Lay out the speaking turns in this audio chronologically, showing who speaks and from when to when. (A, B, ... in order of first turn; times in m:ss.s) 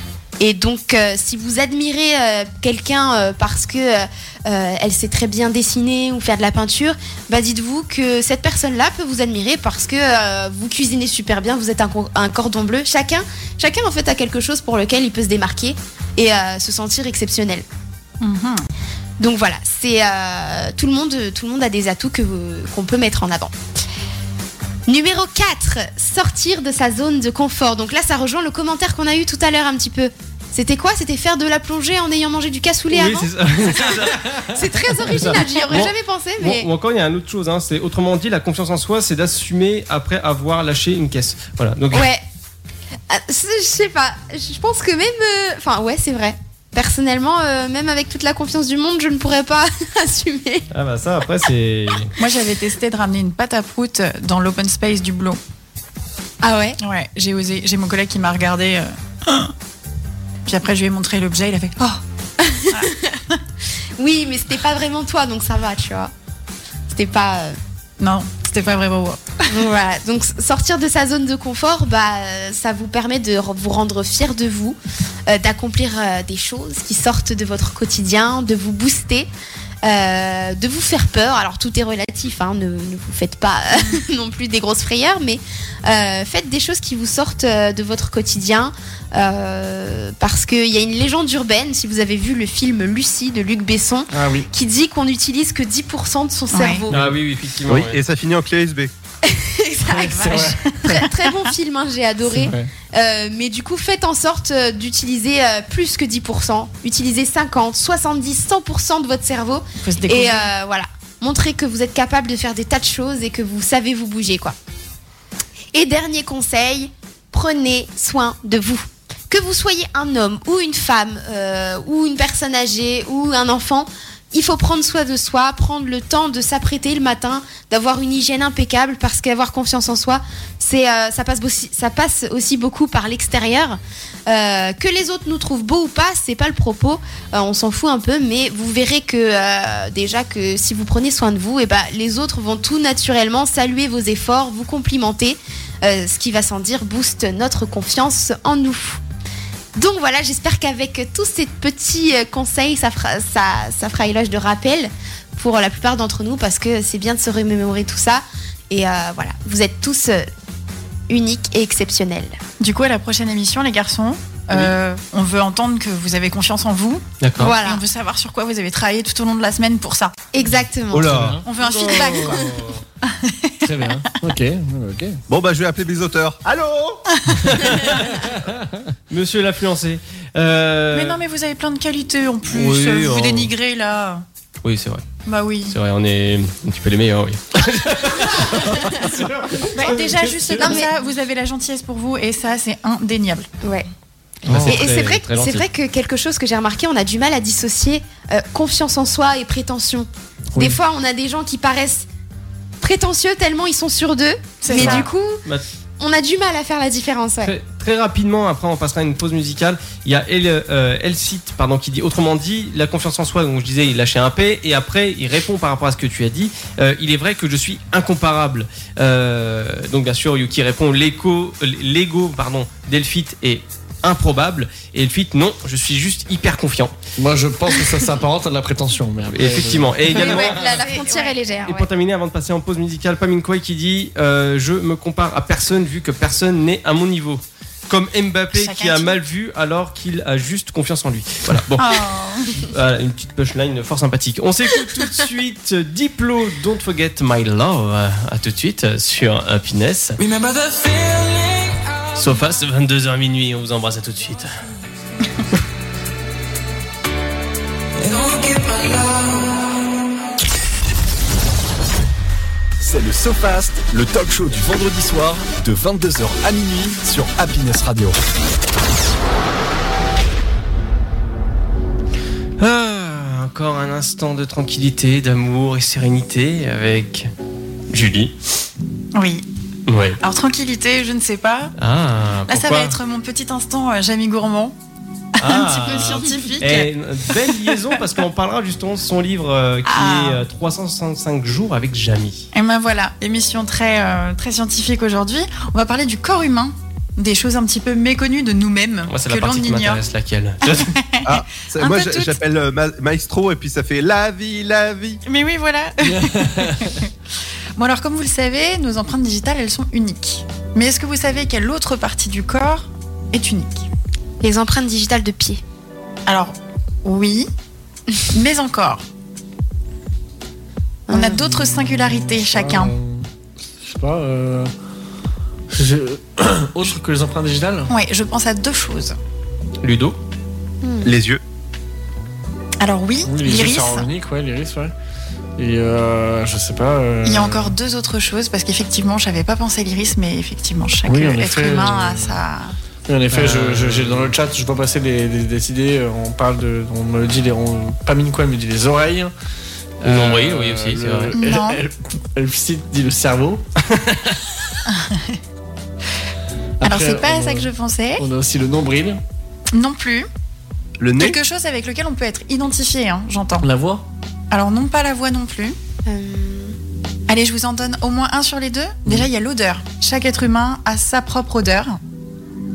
0:00.4-0:17.6 A
0:18.2-0:18.6 B
0:19.2-0:23.5 A
0:24.9-0:36.7 A
0:32.9-0:34.5 C
0:35.0-0:42.1 C
0:41.9-0:42.2 A
0:43.1-0:50.6 A
0:50.7-0:52.1 C
0:52.2-0:55.4 B
0:56.4-0:56.8 A
0:56.8-0:59.5 B
1:00.5-1:02.0 B
1:02.4-1:03.2 A
1:04.0-1:06.1 A
1:06.9-1:07.6 A
1:08.0-1:09.4 B
1:09.5-1:19.3 A
1:19.8-1:37.1 A
1:34.1-1:34.5 D
1:36.5-1:36.8 B
1:36.9-1:38.0 C
1:37.7-1:38.9 E
1:39.2-1:54.6 A
1:39.9-1:41.0 D
1:40.2-1:41.1 B
1:42.3-1:42.7 D
1:49.8-1:50.5 B
1:55.7-2:29.0 A
2:29.7-2:40.3 A
2:41.1-2:42.4 A
2:42.6-2:50.1 B
2:47.2-2:47.6 C
2:47.4-2:47.8 A
2:50.3-2:51.2 A
2:50.4-2:52.4 D
2:50.9-2:51.4 E
2:51.4-2:52.5 B
2:51.8-2:52.7 A
2:53.0-2:53.7 B
2:53.6-2:55.2 D
2:55.3-2:57.0 E
2:57.6-2:58.0 C
2:58.3-2:58.6 D
2:59.1-3:01.2 C
3:00.9-3:04.2 B
3:02.5-3:03.5 C
3:04.6-3:05.0 C
3:05.2-3:05.7 B
3:05.7-3:09.2 C
3:08.5-3:10.8 D
3:09.8-3:13.5 B
3:10.6-3:10.9 A
3:14.4-3:14.8 D
3:14.4-3:15.6 C
3:14.6-3:22.1 A
3:22.8-3:25.4 A
3:24.6-3:25.1 B
3:24.7-3:25.6 C
3:26.0-3:27.5 A
3:27.4-3:46.9 C
3:47.2-3:50.6 D
3:49.3-3:50.7 C
3:50.1-3:51.9 A
3:50.2-3:51.4 B
3:51.6-4:02.0 C
3:58.5-3:59.2 B
4:01.8-4:02.6 B
4:02.5-4:10.2 C
4:12.1-4:14.5 C
4:22.8-4:28.2 F
4:32.6-4:37.3 C
4:37.9-4:38.3 C
4:39.1-4:39.4 B
4:39.9-4:40.2 C
4:40.2-4:41.7 B
4:41.8-4:43.0 C
4:42.5-4:44.7 B
4:45.4-4:46.9 B
4:45.4-4:52.5 C
4:47.5-4:47.8 B
4:49.8-4:50.4 B
4:52.5-5:00.0 B
4:59.1-5:00.9 C
5:00.7-5:02.4 B
5:01.2-5:05.2 E
5:05.2-5:07.1 B
5:06.1-5:06.9 D
5:07.8-5:13.9 B
5:14.4-5:15.6 A
5:16.3-5:17.5 B
5:18.3-5:19.0 B
5:21.1-5:21.4 A
5:21.1-5:22.9 B
5:21.9-5:23.3 D
5:23.8-5:24.7 D
5:25.7-5:27.9 D
5:27.9-5:29.2 B
5:29.8-5:30.2 C
5:30.8-5:31.1 A
5:31.0-5:31.4 E
5:32.8-5:34.1 B
5:33.2-5:34.9 D
5:35.6-5:37.8 D
5:37.2-5:42.7 B
5:41.0-5:42.4 D
5:43.1-5:49.3 D
5:43.3-5:44.3 C
5:50.0-5:53.6 D
5:50.0-5:51.3 C
5:51.3-5:51.8 B
5:54.9-5:55.4 B
5:56.8-5:59.2 D
5:56.8-5:58.2 B
5:59.7-6:00.3 B
6:01.0-6:01.4 E
6:01.2-6:03.7 B
6:03.6-6:04.0 D
6:04.5-6:05.8 B
6:06.0-6:06.8 A
6:07.3-6:12.0 B